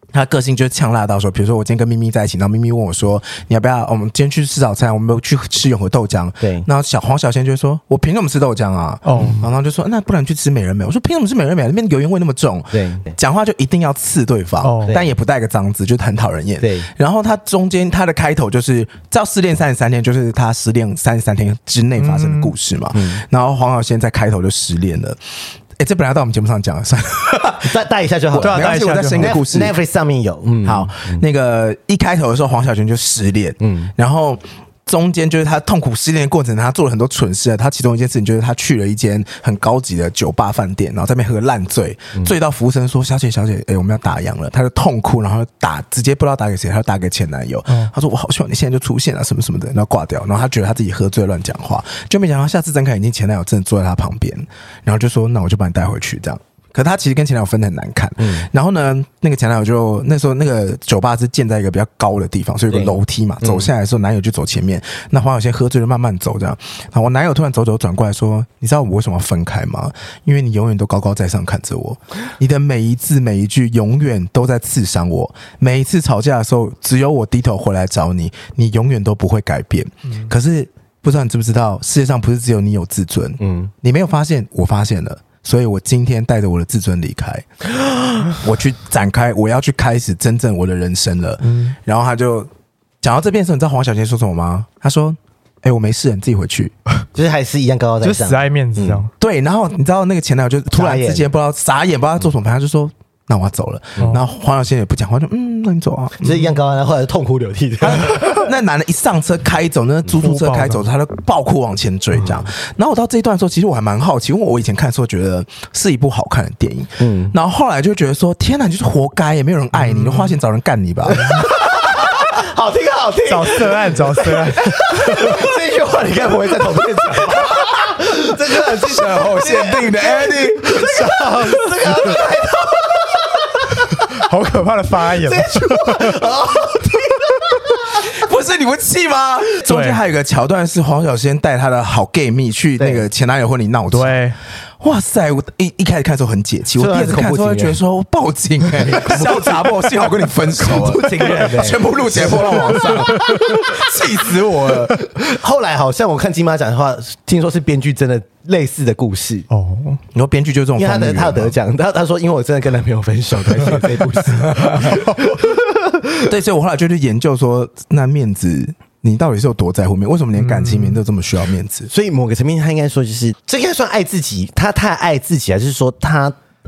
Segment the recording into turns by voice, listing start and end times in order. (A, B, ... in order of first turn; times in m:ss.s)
0:00.1-0:25.2 A
0:06.4-0:06.7 B
0:09.0-0:09.4 C
0:12.7-0:13.1 B
0:14.6-0:15.0 C
0:14.9-0:15.2 B
0:16.6-0:16.9 B
0:22.0-0:22.5 C
0:22.9-0:23.2 B
0:25.8-0:27.8 A
0:27.6-0:31.2 B
0:28.3-0:29.4 C
0:28.3-0:29.8 A
0:30.6-1:27.5 A
0:33.6-0:33.9 B
0:58.2-0:58.5 B
1:02.7-1:03.7 B
1:23.4-1:23.7 B
1:28.3-1:32.5 A
1:31.4-1:31.8 C
1:33.0-1:36.7 A
1:37.1-1:39.1 B
1:38.0-1:39.1 C
1:39.2-1:46.6 A
1:40.7-1:41.3 B
1:46.2-1:48.5 B
1:47.8-2:01.4 A
1:50.2-1:50.9 C
1:52.2-1:52.5 B
1:57.0-1:57.4 B
1:59.8-2:00.4 C
2:01.1-2:14.2 B
2:03.2-2:05.4 C
2:08.7-2:10.8 A
2:10.8-2:12.2 C
2:13.9-2:16.2 C
2:15.1-2:18.1 B
2:18.0-2:24.2 A
2:19.6-2:20.0 C
2:22.8-2:23.1 B
2:23.9-2:24.4 C
2:24.8-2:35.1 A
2:26.8-2:27.8 B
2:28.6-2:33.8 B
2:31.0-2:31.5 C
2:32.5-2:33.8 C
2:35.1-2:39.5 B
2:39.5-2:40.0 C
2:40.1-2:41.6 A
2:40.8-2:46.2 B
2:44.5-2:45.0 A
2:44.9-2:45.2 C
2:46.2-2:51.9 A
2:50.4-2:51.0 C
2:51.9-2:56.4 B